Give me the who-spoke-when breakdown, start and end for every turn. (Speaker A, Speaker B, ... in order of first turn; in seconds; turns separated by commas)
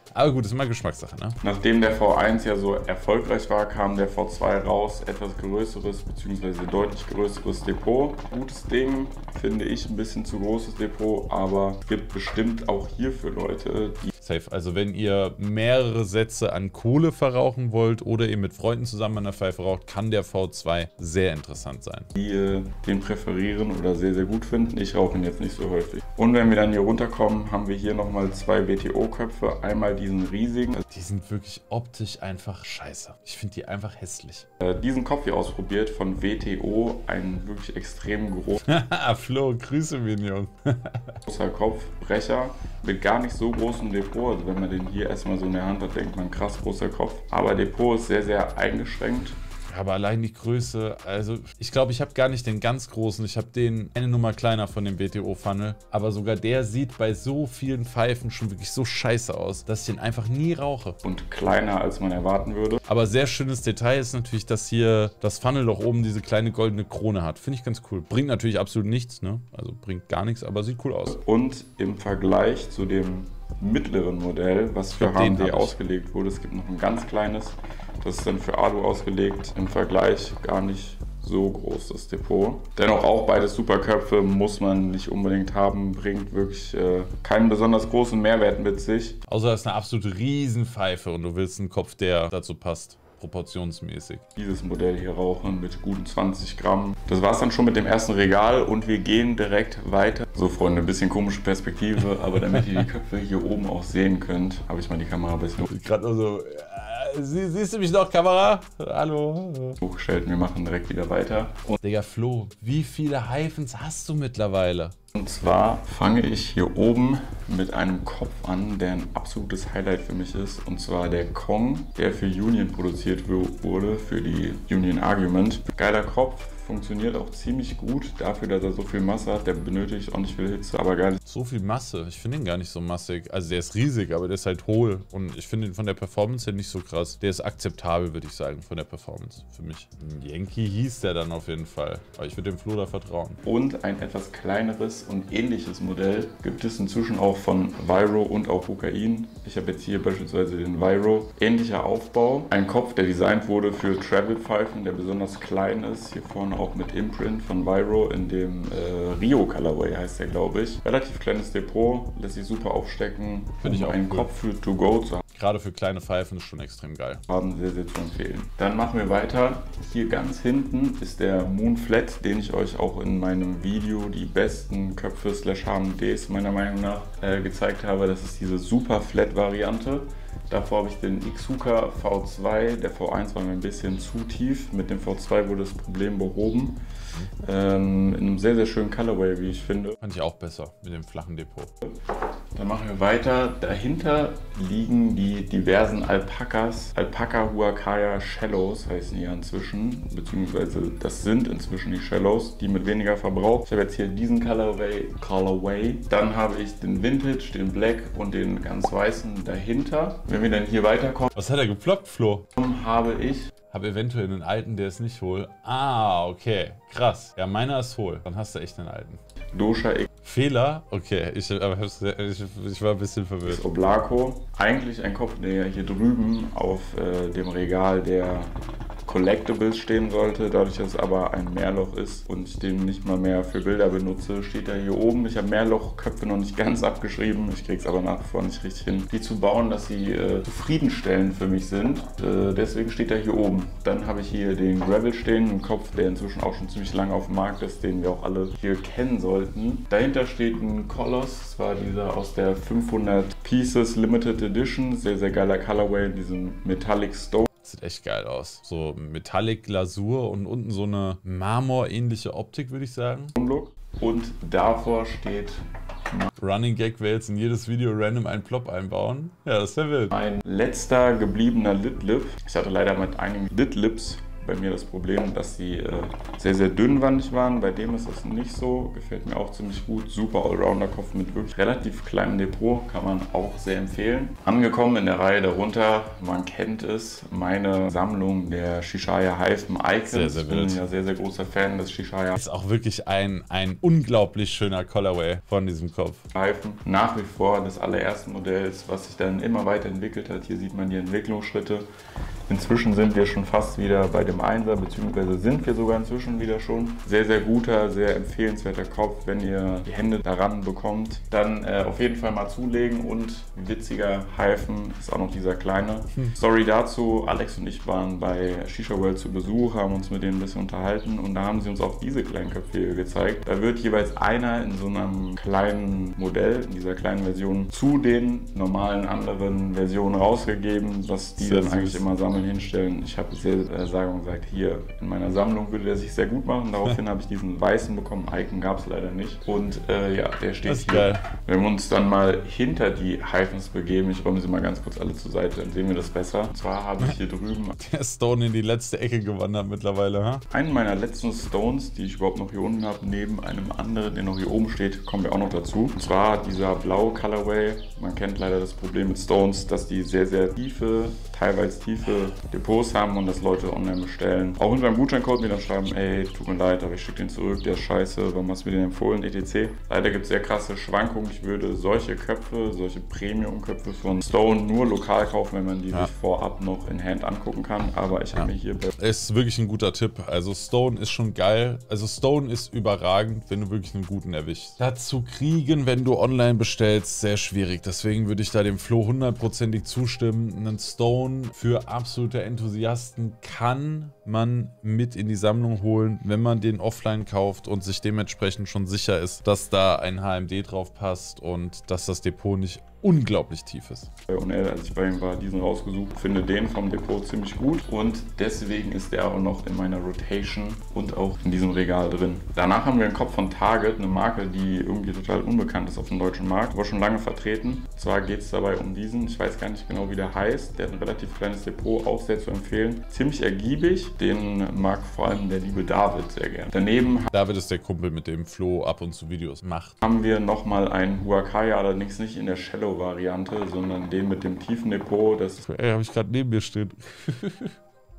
Speaker A: 0.1-1.4, Speaker B: 1.4-14.1, Speaker A: 14.2-22.1, Speaker B: 22.2-30.8, Speaker A: 30.8-34.5, Speaker B: 34.6-38.6, Speaker A: 38.6-41.2, Speaker B: 41.3-49.4, Speaker A: 49.7-61.0, Speaker B: 61.0-62.8, Speaker A: 62.9-71.2, Speaker B: 71.1-89.2, Speaker A: 74.9-75.8, Speaker A: 89.3-94.2, Speaker B: 94.4-105.7, Speaker A: 102.4-102.8, Speaker A: 105.6-109.8, Speaker B: 109.8-111.8, Speaker A: 111.8-114.9, Speaker B: 115.1-131.2, Speaker A: 131.2-143.4, Speaker B: 143.4-165.2, Speaker A: 163.6-164.3, Speaker A: 165.3-167.2, Speaker B: 167.3-186.8, Speaker B: 187.4-190.0, Speaker A: 190.0-191.7, Speaker B: 192.6-211.3, Speaker A: 211.3-212.5, Speaker B: 212.6-213.5, Speaker A: 213.7-219.2, Speaker B: 219.5-220.1, Speaker A: 220.2-223.7, Speaker B: 223.4-228.5, Speaker B: 229.1-257.5, Speaker A: 257.6-263.3, Speaker B: 263.4-266.3, Speaker A: 266.4-270.1, Speaker B: 270.1-292.4, Speaker A: 290.1-290.8, Speaker A: 292.4-296.2, Speaker B: 296.3-301.9, Speaker B: 302.5-347.8, Speaker A: 331.4-332.0, Speaker A: 340.6-341.2, Speaker A: 347.8-350.4, Speaker B: 350.5-378.9, Speaker A: 378.3-404.1, Speaker B: 404.3-427.3, Speaker A: 427.3-430.0, Speaker B: 430.0-435.6, Speaker A: 435.6-437.8